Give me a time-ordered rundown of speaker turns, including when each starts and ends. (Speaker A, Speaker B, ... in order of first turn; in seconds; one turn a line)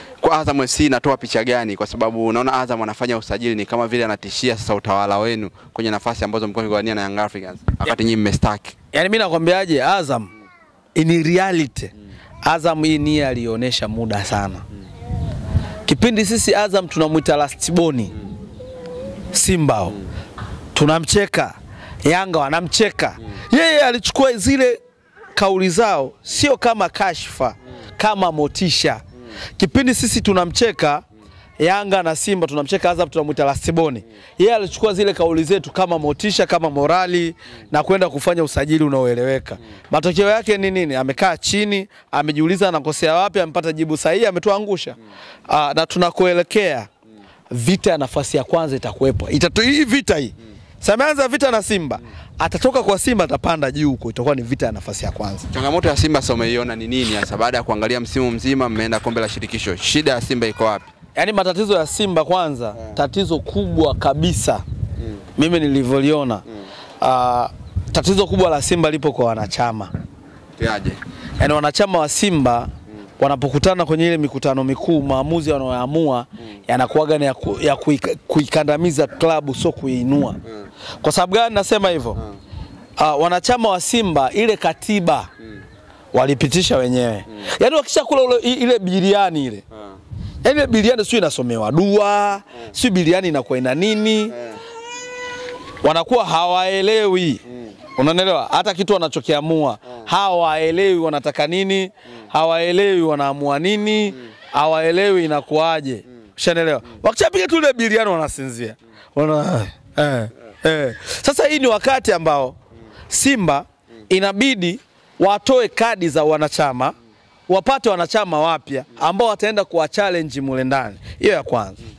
Speaker A: 0.2-8.7
Speaker B: 8.9-10.3
Speaker B: 10.9-11.9
Speaker B: 12.4-14.6
Speaker B: 15.8-18.1
Speaker B: 19.3-20.0
Speaker B: 20.7-24.8
Speaker B: 25.3-29.0
Speaker B: 29.6-31.0
Speaker B: 31.6-45.0
Speaker B: 45.5-46.9
Speaker B: 47.5-55.5
Speaker A: 55.5-60.9
Speaker B: 61.1-64.6
Speaker B: 65.4-66.4
Speaker B: 67.0-69.9
Speaker A: 70.6-71.0
Speaker B: 71.4-80.4
Speaker B: 81.0-82.2
Speaker B: 83.0-85.3
Speaker B: 86.1-89.6
Speaker B: 90.4-94.3
Speaker B: 95.8-97.4
Speaker B: 98.0-112.5
Speaker B: 113.1-116.9
Speaker B: 117.5-121.8